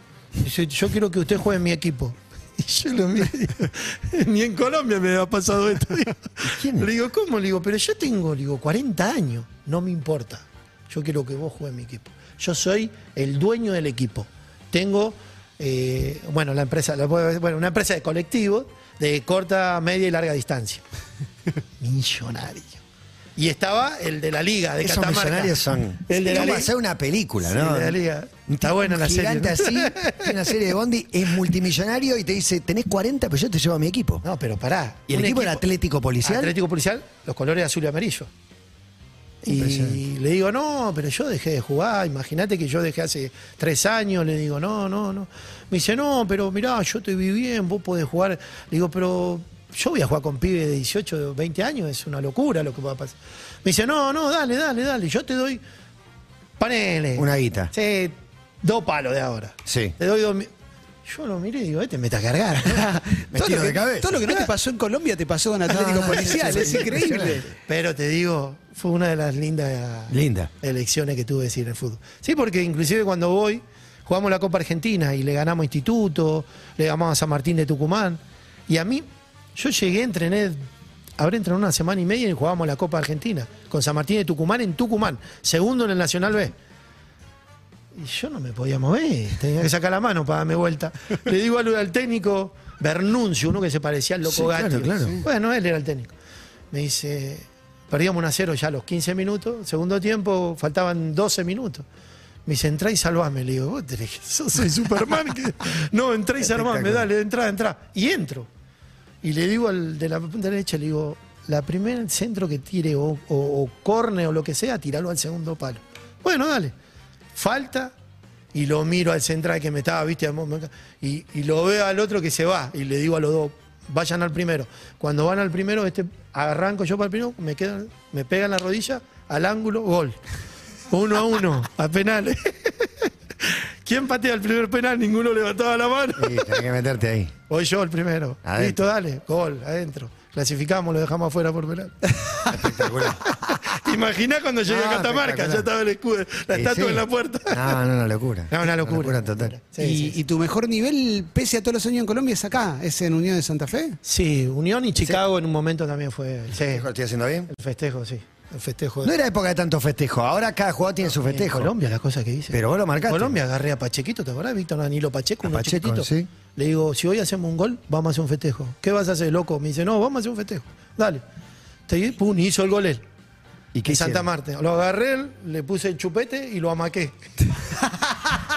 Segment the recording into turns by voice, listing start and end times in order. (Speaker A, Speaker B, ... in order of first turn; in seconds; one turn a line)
Speaker A: 0.4-20.8
Speaker B: 6.4-6.9
Speaker A: 21.8-22.8
Speaker A: 23.4-26.7
Speaker B: 24.8-28.0
Speaker A: 27.4-30.5
Speaker B: 28.5-34.2
Speaker A: 34.2-35.6
Speaker B: 35.1-36.5
Speaker A: 36.2-38.3
Speaker A: 39.4-55.6
Speaker B: 39.5-40.0
Speaker A: 56.6-60.5
Speaker B: 57.2-57.7
Speaker B: 59.7-60.0
Speaker A: 61.0-63.2
Speaker C: 62.8-67.5
Speaker B: 63.3-64.2
Speaker B: 65.7-67.5
Speaker A: 66.0-80.7
Speaker B: 70.1-70.5
Speaker A: 81.2-86.5
Speaker A: 88.0-96.1
Speaker B: 94.2-95.2
Speaker A: 96.7-101.8
Speaker A: 102.5-108.5
Speaker B: 106.5-107.1
Speaker A: 109.2-116.7
Speaker A: 117.3-117.9
Speaker A: 118.5-130.2
Speaker A: 130.9-136.6
Speaker B: 136.2-137.3
Speaker A: 137.5-147.8
Speaker B: 138.4-138.8
Speaker B: 142.5-143.3
Speaker B: 144.7-145.7
Speaker B: 146.5-149.5
Speaker A: 148.5-150.2
Speaker C: 149.8-154.0
Speaker A: 154.0-156.9
Speaker B: 156.6-157.5
Speaker A: 157.5-159.2
Speaker B: 159.0-161.7
Speaker A: 161.0-171.2
Speaker B: 162.5-163.4
Speaker B: 165.4-166.3
Speaker A: 171.9-173.0
Speaker B: 173.7-174.3
Speaker A: 173.9-177.2